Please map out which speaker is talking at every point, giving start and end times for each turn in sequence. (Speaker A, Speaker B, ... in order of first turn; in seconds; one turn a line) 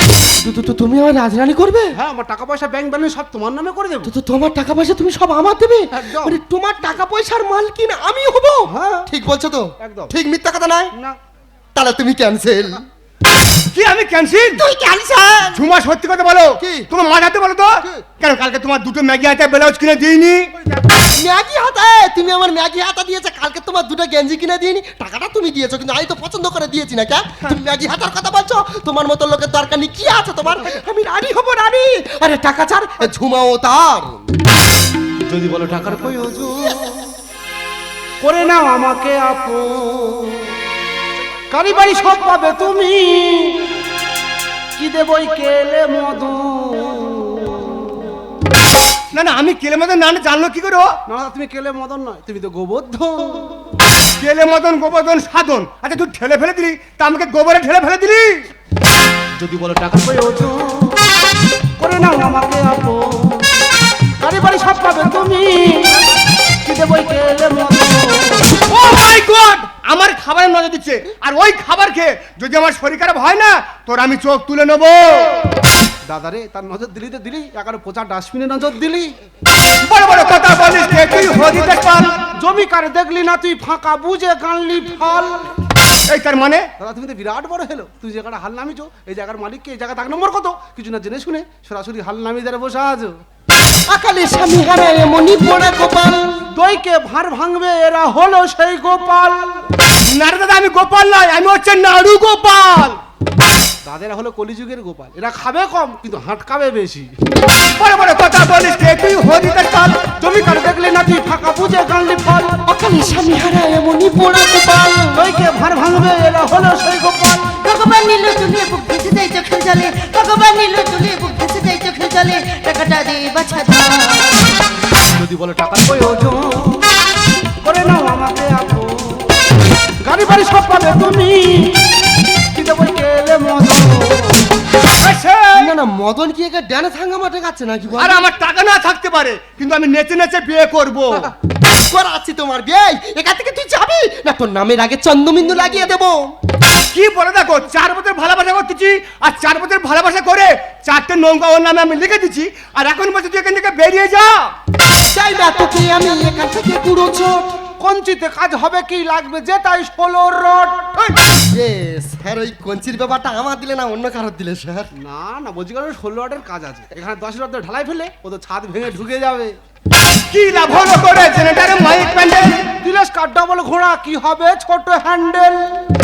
Speaker A: 0.4-1.9
Speaker B: 1.9-4.1
Speaker A: 4.0-10.9
Speaker B: 5.9-6.4
Speaker B: 8.7-9.1
Speaker B: 9.8-10.1
Speaker A: 11.8-12.8
Speaker C: 13.7-14.6
Speaker A: 14.5-15.6
Speaker C: 15.5-20.5
Speaker A: 16.6-16.9
Speaker A: 21.1-34.2
Speaker B: 35.3-37.1
Speaker B: 38.2-40.5
Speaker B: 41.5-43.7
Speaker B: 44.8-48.1
Speaker C: 49.1-50.9
Speaker B: 51.0-53.6
Speaker C: 54.2-58.5
Speaker B: 59.4-61.1
Speaker B: 61.8-63.5
Speaker B: 64.2-66.0
Speaker B: 66.6-68.6
Speaker C: 68.7-75.5
Speaker B: 76.0-79.1
Speaker C: 79.9-82.2
Speaker B: 82.2-85.5
Speaker C: 86.1-86.7
Speaker B: 86.8-93.2
Speaker A: 93.9-96.5
Speaker B: 96.5-99.6
Speaker C: 100.0-103.0
Speaker B: 103.8-107.1
Speaker C: 107.8-110.1
Speaker B: 110.2-112.6
Speaker A: 112.6-115.2
Speaker B: 115.1-117.6
Speaker D: 117.6-124.5
Speaker B: 125.0-126.9
Speaker B: 127.6-129.5
Speaker B: 130.0-131.9
Speaker B: 132.5-134.5
Speaker C: 135.0-135.7
Speaker A: 135.5-138.3
Speaker C: 138.0-141.3
Speaker A: 141.6-146.3
Speaker C: 146.9-154.5
Speaker A: 155.1-157.6
Speaker B: 157.8-161.0
Speaker A: 161.5-164.9
Speaker B: 164.9-169.6
Speaker C: 170.3-172.7
Speaker B: 172.8-175.9